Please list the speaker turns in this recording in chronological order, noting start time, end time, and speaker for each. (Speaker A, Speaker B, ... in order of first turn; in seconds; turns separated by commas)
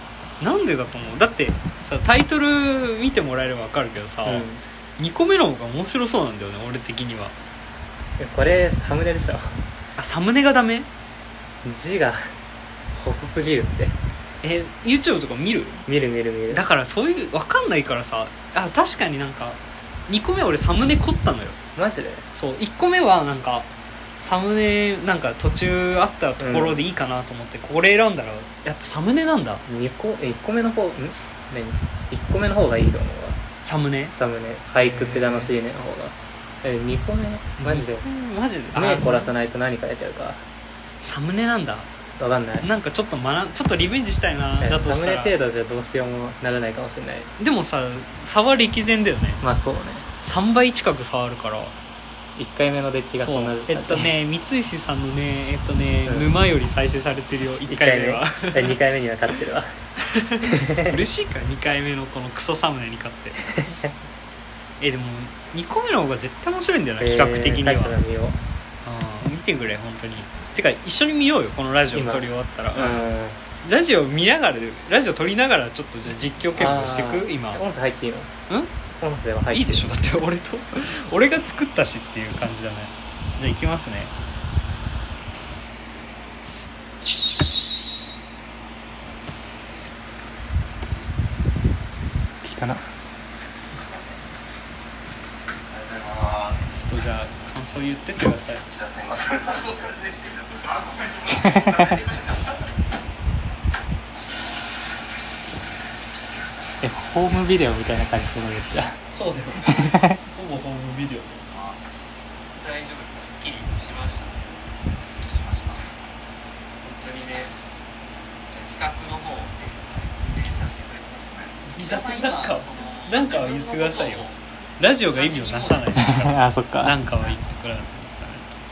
Speaker A: 0.4-7.3, Speaker B: 4.2-4.6, Speaker B: 8.2-9.6, Speaker A: 10.0-10.9, Speaker B: 11.6-12.3, Speaker B: 12.9-14.0, Speaker A: 14.4-15.8, Speaker B: 15.9-16.6, Speaker A: 16.5-21.6, Speaker B: 21.8-22.3, Speaker A: 22.3-23.7, Speaker A: 24.2-29.6, Speaker B: 26.4-26.8, Speaker B: 29.7-33.4, Speaker A: 33.6-34.1, Speaker B: 34.1-38.0, Speaker A: 34.8-35.5, Speaker A: 37.6-39.3, Speaker B: 38.7-40.5, Speaker A: 41.0-41.9, Speaker B: 42.2-42.7, Speaker A: 42.6-45.4, Speaker B: 44.6-47.3, Speaker A: 47.4-49.4, Speaker B: 49.4-50.1, Speaker A: 50.2-51.8, Speaker B: 52.4-54.1, Speaker A: 53.2-58.8, Speaker B: 56.1-56.4, Speaker B: 57.7-59.7, Speaker A: 60.1-63.4, Speaker B: 60.5-61.0, Speaker B: 63.6-63.9, Speaker A: 64.8-68.0, Speaker B: 67.0-68.4, Speaker A: 68.8-73.1, Speaker B: 71.9-73.4, Speaker A: 73.6-77.6, Speaker B: 76.6-78.3, Speaker B: 79.0-79.9, Speaker A: 79.5-84.1, Speaker B: 92.4-92.9, Speaker C: 95.9-96.5, Speaker A: 96.7-98.7, Speaker C: 98.8-102.5, Speaker B: 101.3-102.0, Speaker B: 106.8-109.0, Speaker A: 109.1-111.4, Speaker C: 109.7-110.0, Speaker B: 109.7-110.2, Speaker C: 111.5-111.8, Speaker C: 112.5-114.4, Speaker C: 115.0-115.9, Speaker C: 116.8-117.6, Speaker C: 118.5-124.4, Speaker A: 121.7-128.5, Speaker C: 125.1-126.0, Speaker B: 126.0-127.0